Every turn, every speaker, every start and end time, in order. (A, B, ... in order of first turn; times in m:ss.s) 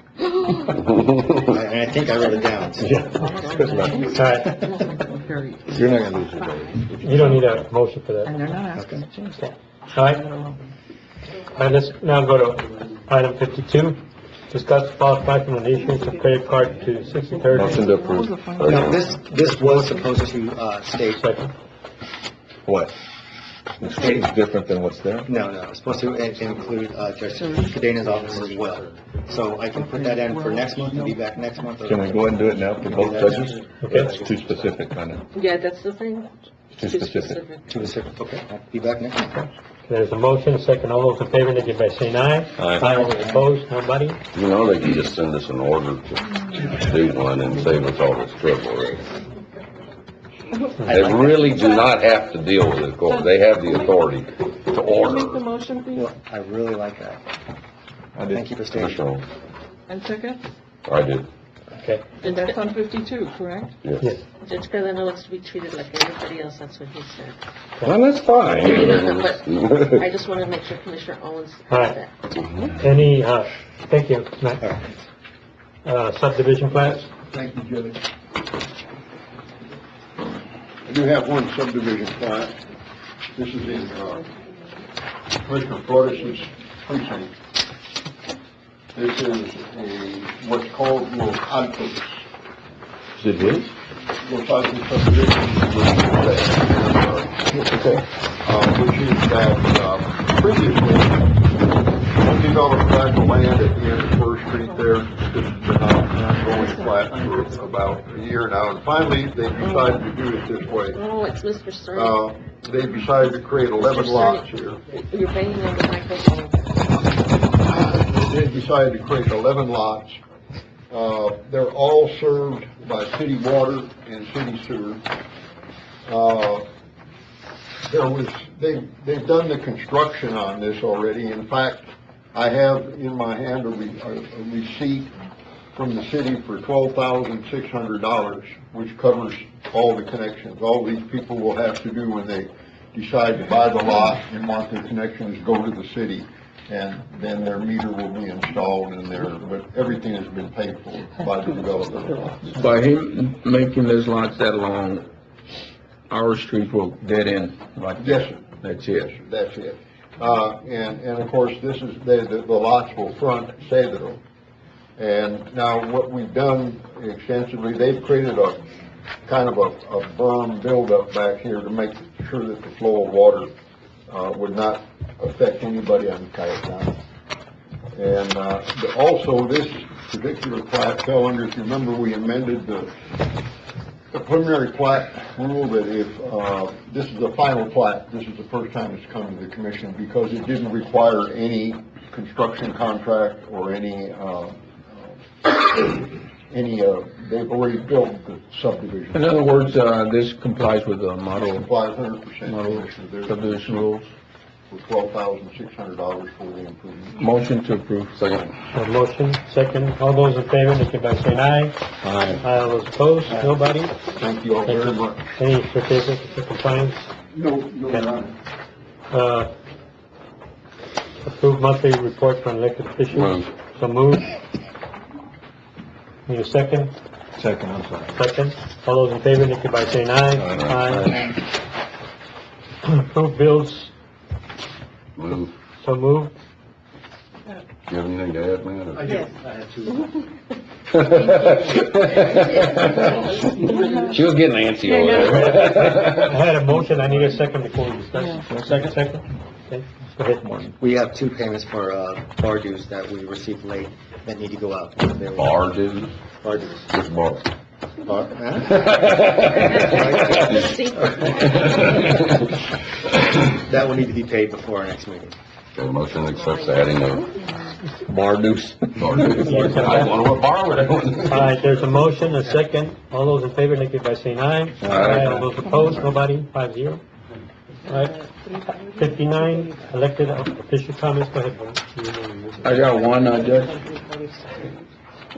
0:01.4-0:03.4 A
0:02.8-0:04.6 B
0:03.1-0:06.2 C
0:04.1-0:04.6 D
0:05.7-0:07.6 B
0:07.0-0:08.4 D
0:07.0-0:07.5 C
0:08.2-0:10.7 C
0:08.7-0:09.0 A
0:09.4-0:10.2 D
0:11.6-0:14.0 D
0:14.5-0:17.9 D
0:15.9-0:20.0 C
0:17.5-0:18.3 B
0:18.6-0:18.9 E
0:18.6-0:21.3 A
0:21.2-0:21.5 D
0:22.7-0:22.9 B
0:23.8-0:25.3 B
0:25.3-0:34.8 A
0:27.3-0:27.9 C
0:29.7-0:31.2 C
0:31.8-0:35.2 B
0:33.8-0:34.1 D
0:35.3-0:37.7 F
0:36.7-0:37.4 B
0:37.6-0:39.4 A
0:39.9-0:44.2 D
0:42.6-0:42.9 B
0:42.8-0:43.4 A
0:44.3-0:49.0 E
0:50.8-0:51.9 C
0:50.9-0:51.4 A
0:50.9-0:55.4 E
0:53.0-0:54.2 C
0:54.7-0:56.1 C
0:55.9-0:57.2 A
0:58.2-0:58.5 B
0:58.3-0:59.0 A
0:58.8-0:59.2 E
0:59.9-1:00.4 C
1:00.9-1:01.3 E
1:01.7-1:02.1 D
1:02.2-1:02.6 F
1:02.2-1:03.7 C
1:04.4-1:07.4 F
1:07.9-1:09.8 E
1:08.6-1:12.2 F
1:11.7-1:12.0 D
1:12.8-1:14.6 D
1:14.6-1:14.9 A
1:15.8-1:17.1 D
1:17.3-1:18.0 G
1:20.8-1:22.6 G
1:23.4-1:24.3 G
1:25.4-1:27.3 G
1:28.9-1:32.2 G
1:33.3-1:33.6 B
1:34.2-1:37.4 G
1:37.7-1:38.0 H
1:38.4-1:41.2 G
1:42.2-1:51.0 G
1:46.5-1:46.9 C
1:49.6-1:50.0 F
1:50.9-1:52.2 F
1:51.9-1:54.8 G
1:53.8-1:56.6 F
1:57.4-2:00.2 G
2:00.9-2:05.0 G
2:06.0-2:06.7 G
2:07.8-2:15.1 G
2:15.8-2:32.6 G
2:32.5-2:35.1 H
2:36.1-2:39.1 H
2:38.0-2:44.2 G
2:45.0-2:48.6 G
2:49.3-2:53.5 G
2:54.1-2:57.0 G
2:58.0-3:03.0 G
3:04.1-3:19.3 G
3:19.1-3:21.7 H
3:21.4-3:23.9 G
3:22.4-3:24.1 H
3:24.7-3:27.2 G
3:27.2-3:28.5 H
3:28.7-3:31.8 D
3:32.1-3:32.4 B
3:32.3-3:34.0 D
3:34.2-3:35.3 G
3:34.6-3:37.1 D
3:37.3-3:38.3 G
3:39.1-3:39.5 D
3:41.2-3:44.3 D
3:46.3-3:46.9 D
3:47.4-3:48.2 B
3:48.1-3:51.3 D
3:50.4-3:51.2 B
3:52.8-3:53.9 D
3:55.2-3:55.5 E
3:55.8-3:56.3 D
3:57.9-3:59.2 E
3:59.0-4:00.1 A
4:03.7-4:04.2 C
4:04.2-4:06.2 E
4:04.9-4:05.4 F
4:05.8-4:10.7 D
4:08.2-4:08.5 C
4:10.8-4:15.8 A
4:15.4-4:15.7 E
4:16.4-4:16.9 A
4:16.9-4:17.4 E
4:18.0-4:21.3 A
4:19.3-4:22.2 F
4:23.4-4:25.4 A
4:25.8-4:27.2 E
4:26.3-4:27.2 F
4:28.2-4:29.6 B
4:29.0-4:31.5 E
4:29.4-4:30.2 D
4:31.3-4:37.0 D
4:34.8-4:35.7 H
4:37.9-4:38.2 D
4:37.9-4:39.9 C
4:38.9-4:42.8 D
4:42.6-4:43.9 H
4:42.9-4:44.8 C